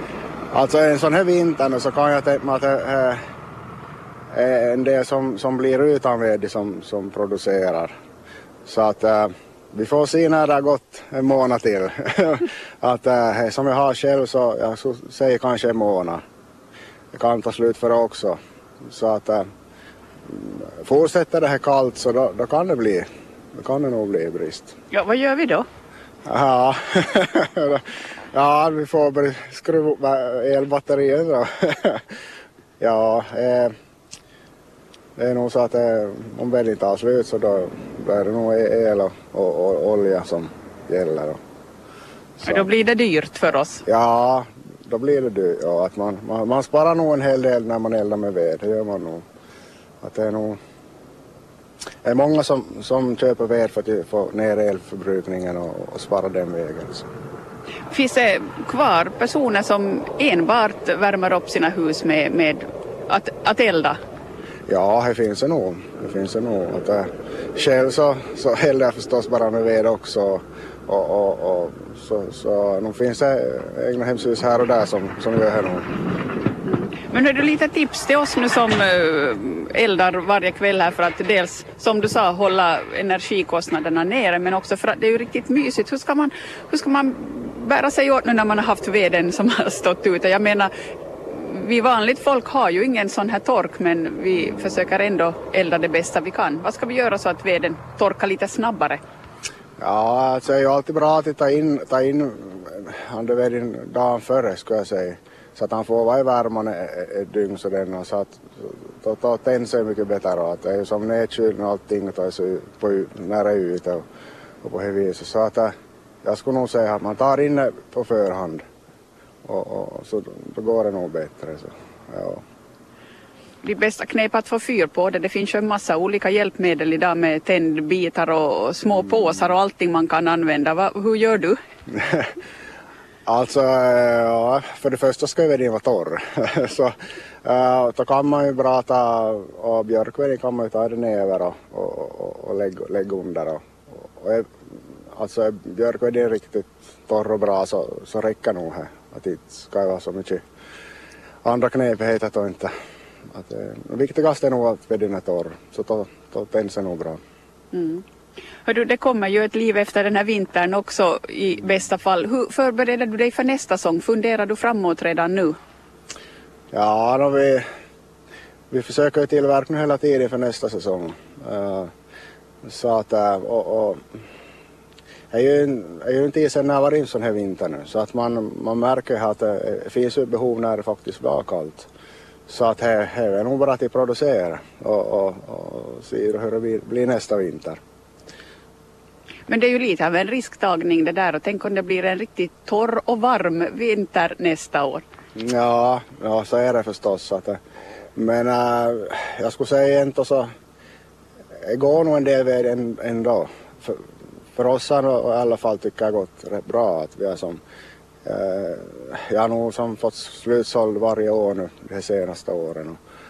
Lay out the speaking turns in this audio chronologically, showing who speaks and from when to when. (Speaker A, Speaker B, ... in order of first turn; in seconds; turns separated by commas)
Speaker A: 0.5-3.2, Speaker A: 4.3-7.9, Speaker A: 8.6-16.2, Speaker A: 17.1-19.4, Speaker A: 20.2-24.7, Speaker B: 24.9-25.6, Speaker A: 26.2-32.0, Speaker A: 32.8-33.7, Speaker A: 35.2-41.4, Speaker A: 42.4-42.7, Speaker B: 42.4-43.8, Speaker A: 43.9-49.2, Speaker A: 50.0-50.6, Speaker A: 52.0-57.1, Speaker B: 57.9-64.0, Speaker A: 64.7-75.9, Speaker B: 76.6-90.7, Speaker B: 91.3-99.0, Speaker A: 99.8-114.0, Speaker A: 114.6-115.7, Speaker A: 116.2-118.6, Speaker A: 119.4-122.4, Speaker B: 123.6-131.6, Speaker A: 131.9-132.3, Speaker A: 133.2-144.6, Speaker A: 145.1-150.4, Speaker A: 151.4-152.7, Speaker A: 153.3-157.2, Speaker B: 157.7-158.0, Speaker B: 158.6-165.6, Speaker A: 166.7-167.6, Speaker A: 168.7-171.9, Speaker A: 172.6-174.0, Speaker A: 175.3-181.9, Speaker A: 182.5-187.8, Speaker B: 189.5-195.0, Speaker A: 195.3-197.6, Speaker A: 198.1-200.5, Speaker A: 201.6-207.6, Speaker A: 208.2-213.0